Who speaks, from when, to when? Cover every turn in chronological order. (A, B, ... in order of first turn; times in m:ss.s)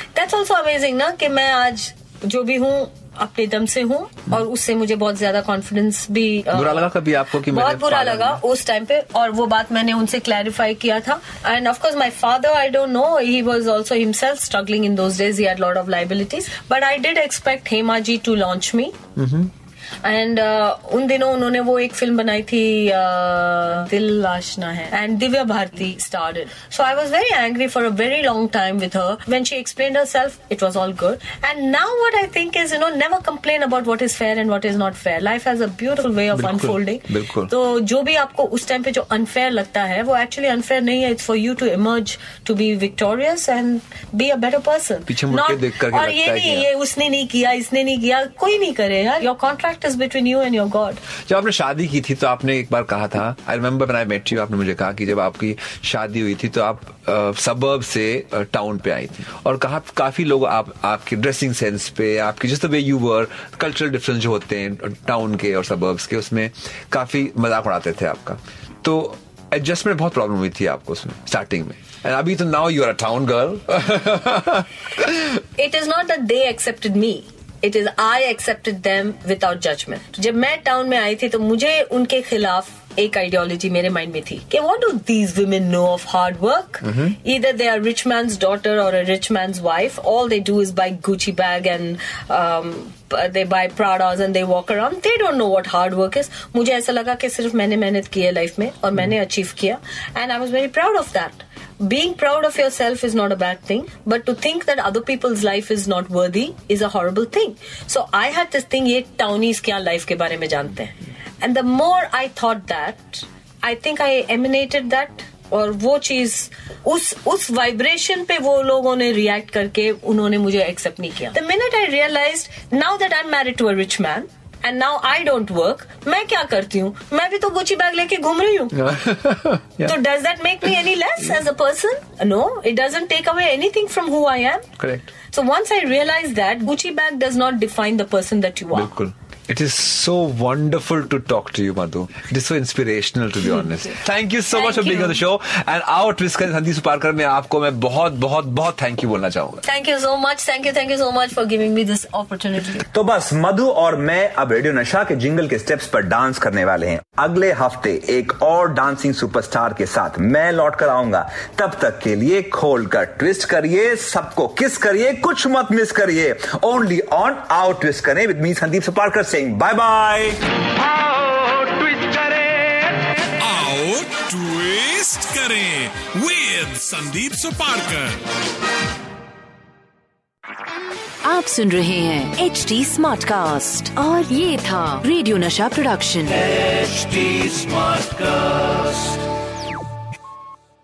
0:00.1-0:06.9 A
0:06.5-0:08.4 B
0:07.4-0:19.0 A
0:19.2-0:19.5 B
0:20.0-0:51.0 A
0:36.3-0:37.5 B
0:45.1-0:46.7 B
0:51.3-1:15.2 B
1:15.6-2:08.8 A
2:08.8-2:09.9 B
2:09.8-2:14.6 A
2:14.8-2:15.1 B
2:15.3-2:18.9 A
2:18.7-2:29.6 B
2:24.5-2:25.2 A
2:29.6-2:32.9 A
2:32.9-2:50.4 C
2:50.9-2:52.7 D
2:53.4-2:58.2 D
3:01.3-3:06.2 E
3:07.0-3:07.4 D